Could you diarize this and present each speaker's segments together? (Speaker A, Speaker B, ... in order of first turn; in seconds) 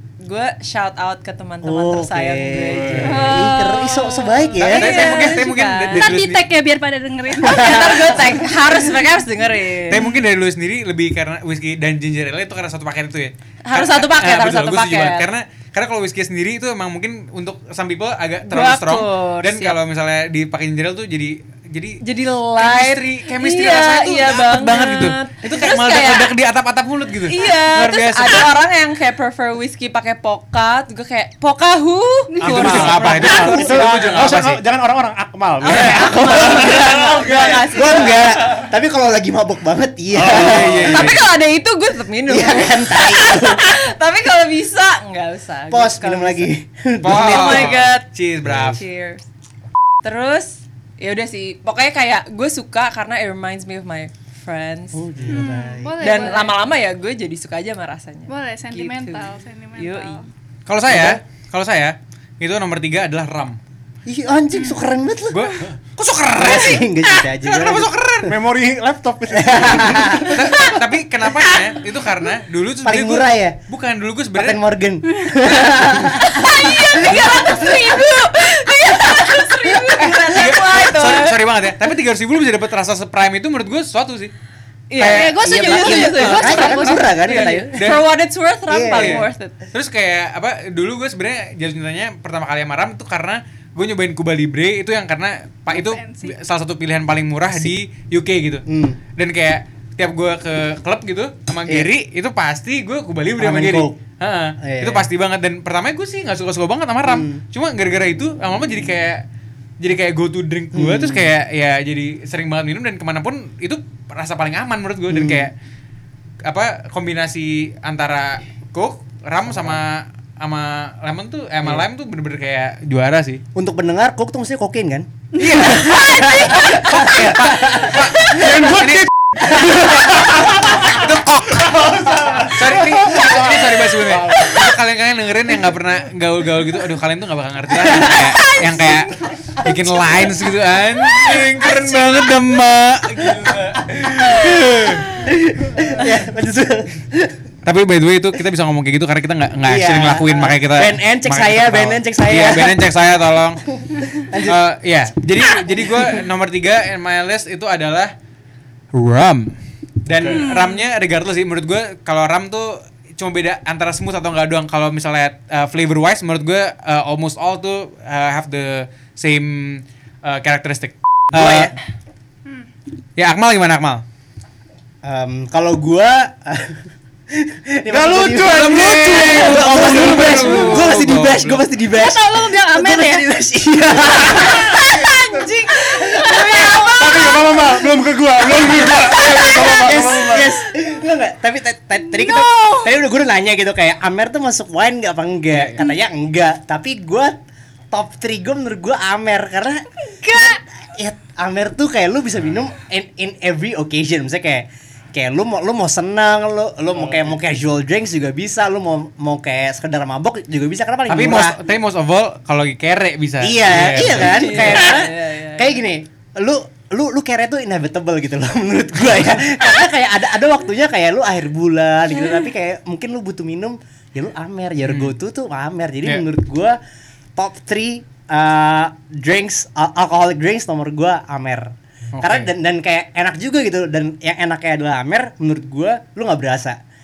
Speaker A: 0.2-6.1, 7.4-10.0, 13.7-15.3, 18.5-19.8, 22.0-26.4, 27.3-34.3, 35.6-38.4, 40.5-46.5, 47.1-48.1, 48.7-49.2, 50.0-55.0, 56.0-60.2, 75.8-81.4, 84.9-89.5, 214.1-215.8
Speaker B: 1.6-5.0, 7.4-8.4, 36.0-41.2, 42.3-43.7, 45.7-47.9, 54.9-56.3, 60.9-61.2, 64.1-65.5, 66.4-68.0, 69.3-70.6, 72.8-73.6, 74.3-78.0, 85.4-88.0, 88.7-89.3, 98.7-99.0, 103.4-104.0, 104.6-105.1, 107.0-107.4, 110.7-111.3, 115.1-115.5, 123.5-128.6, 137.7-140.3, 143.9-147.3, 149.7-152.8, 153.7-154.6, 155.5-156.1, 171.3-171.8, 175.0-186.8, 188.7-197.4, 197.9-211.6, 213.4-226.8, 227.4-236.8
Speaker C: 2.7-3.4, 32.4-37.6, 40.1-41.0, 68.3-70.4, 128.3-129.1, 129.8-131.0, 131.6-134.8, 160.1-160.5, 177.9-180.8, 186.8-190.6, 207.0-207.3
Speaker D: 4.6-6.5, 9.9-22.0, 22.6-28.6, 32.4-34.6, 40.3-41.3, 47.0-48.8, 60.7-63.6, 65.3-68.3, 70.2-74.6, 80.0-84.3, 85.0-85.4, 86.7-88.0, 88.9-109.2, 109.8-115.5, 116.4-123.4, 125.4-129.1, 129.7-145.1, 147.7-153.6, 154.3-158.1, 158.9-171.8, 173.2-174.0, 178.5-181.6, 195.5-195.8, 211.1-214.9, 224.8-225.1, 232.2-232.5
Speaker E: 4.8-5.4, 5.9-8.5, 55.3-56.6, 58.3-60.3, 77.1-77.6, 85.1-86.9, 95.7-96.3, 125.4-126.0, 160.3-160.9, 181.9-183.3, 184.3-187.6, 192.2-192.9, 200.2-200.6